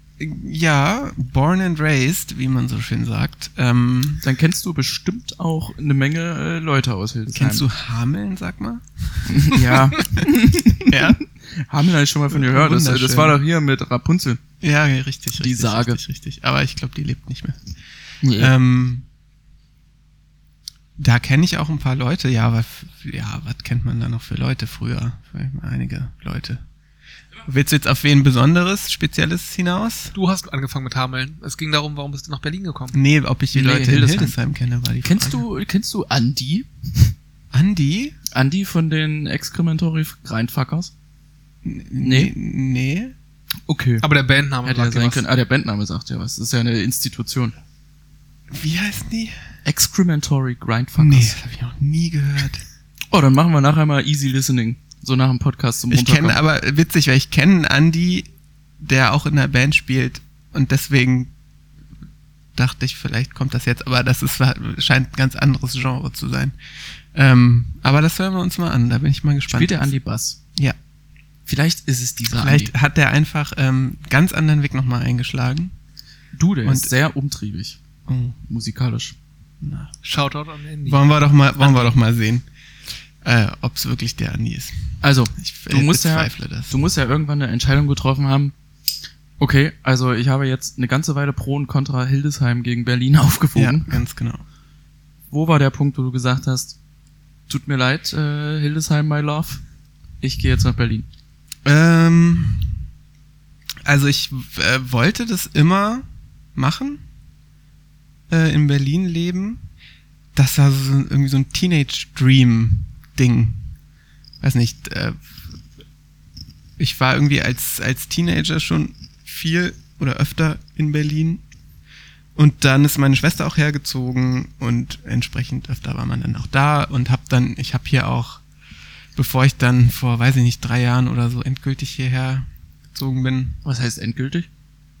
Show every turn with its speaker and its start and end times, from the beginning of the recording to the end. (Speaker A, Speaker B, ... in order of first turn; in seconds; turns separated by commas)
Speaker A: 0.2-4.2, Speaker B: 4.2-7.7, Speaker A: 7.3-10.0, Speaker B: 9.3-14.4, Speaker A: 10.9-11.2, Speaker A: 12.3-13.4, Speaker A: 14.6-17.6, Speaker B: 15.4-16.0, Speaker B: 18.2-18.5, Speaker A: 18.3-19.0, Speaker A: 21.0-26.6, Speaker A: 27.5-30.1, Speaker C: 30.1-33.0, Speaker A: 32.9-35.4, Speaker B: 33.5-34.4, Speaker B: 35.0-37.1, Speaker A: 37.5-38.1, Speaker B: 38.3-40.9, Speaker A: 41.6-43.1, Speaker B: 42.0-42.3, Speaker B: 43.7-44.0, Speaker C: 44.0-45.2, Speaker B: 44.6-47.5, Speaker A: 48.5-49.3, Speaker B: 49.6-51.4, Speaker A: 51.0-52.6, Speaker B: 53.1-56.4, Speaker A: 55.9-58.3, Speaker A: 58.8-61.3, Speaker A: 62.5-66.5, Speaker A: 67.1-70.0, Speaker B: 69.5-70.4, Speaker B: 71.5-72.7, Speaker A: 72.3-75.7, Speaker B: 76.3-77.8, Speaker A: 76.6-76.9, Speaker A: 78.1-78.4, Speaker B: 78.4-79.1, Speaker A: 79.6-79.9, Speaker C: 80.0-81.1, Speaker A: 80.8-82.4, Speaker C: 81.6-81.9, Speaker A: 83.2-84.8, Speaker B: 85.0-88.5, Speaker A: 85.3-86.8, Speaker B: 89.4-94.0, Speaker A: 93.5-94.4, Speaker B: 95.3-96.8, Speaker B: 97.5-99.6, Speaker B: 100.2-101.1, Speaker A: 101.6-102.8, Speaker A: 103.8-106.0, Speaker A: 106.5-107.0, Speaker A: 108.3-109.6, Speaker A: 110.3-113.6, Speaker A: 114.4-115.2, Speaker A: 116.8-121.4, Speaker A: 122.3-128.4, Speaker A: 129.1-133.6, Speaker B: 133.6-134.5